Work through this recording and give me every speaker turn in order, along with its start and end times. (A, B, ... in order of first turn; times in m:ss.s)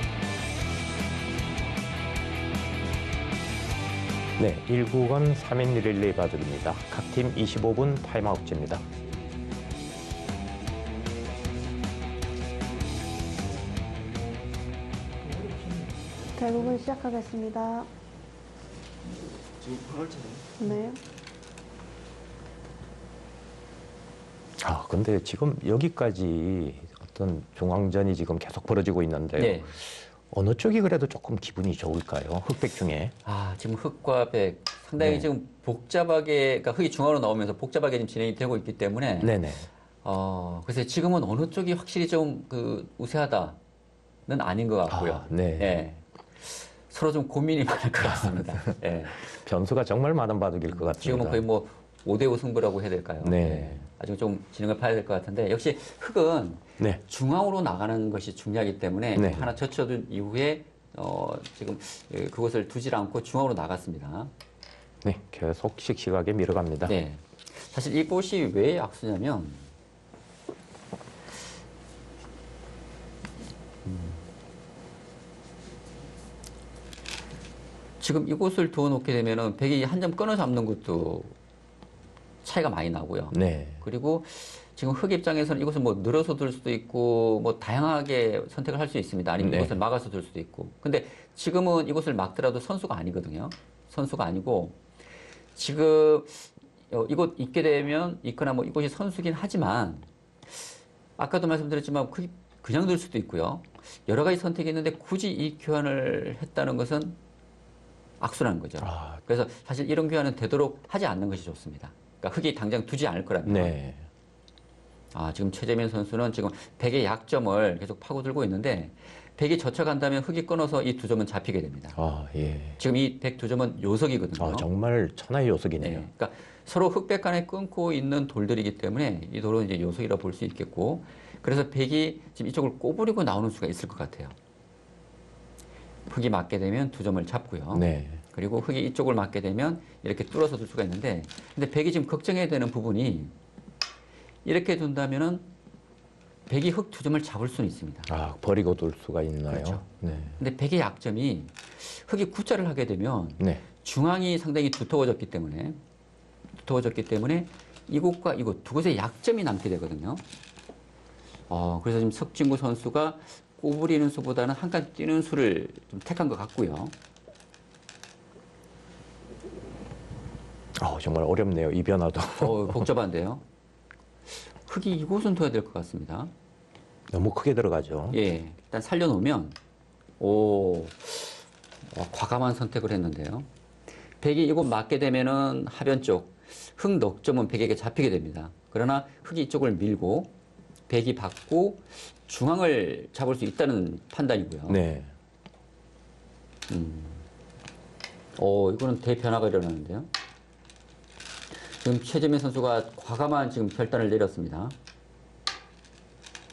0:04.4-0:08.8 A
0:16.4-0:17.9 B
0:20.6-0:21.0 B
0:24.6-0:33.1 A
0:29.4-0:29.7 C
0:33.2-0:39.3 C
0:35.0-0:35.3 A
0:39.2-0:39.7 A
0:40.0-0:43.6 C
0:44.3-0:49.3 C
0:44.9-0:45.8 A
0:48.0-0:48.4 A
0:49.3-0:51.4 A
0:50.7-1:04.3 C
0:53.2-0:53.8 A
0:59.1-0:59.5 A
1:05.0-1:07.0 A
1:06.8-1:09.7 C
1:13.8-1:14.2 C
1:18.0-1:21.3 C
1:22.4-1:34.8 C
1:23.3-1:23.8 A
1:29.4-1:29.8 A
1:35.5-1:40.6 C
1:41.2-1:47.2 C
1:48.2-1:53.7 C
1:48.8-1:49.2 A
1:53.4-1:54.0 A
1:55.1-2:02.0 C
2:01.9-2:02.8 A
2:02.8-2:04.7 C
2:04.4-2:06.1 A
2:05.8-2:14.3 C
2:16.1-2:23.3 C
2:17.7-2:18.2 A
2:24.4-2:25.5 C
2:26.5-2:28.1 C
2:28.1-2:30.4 A
2:29.5-2:29.8 C
2:30.4-2:35.8 C
2:36.6-2:40.2 C
2:41.5-2:46.9 C
2:50.8-2:52.9 A
2:52.4-2:53.4 C
2:54.6-2:56.3 C
2:57.1-2:58.2 A
2:58.1-2:59.6 C
3:00.2-3:03.5 C
3:04.2-3:10.3 C
3:10.9-3:14.8 C
3:14.7-3:15.1 A
3:16.7-3:17.2 C
3:18.4-3:20.1 C
3:21.7-3:24.7 C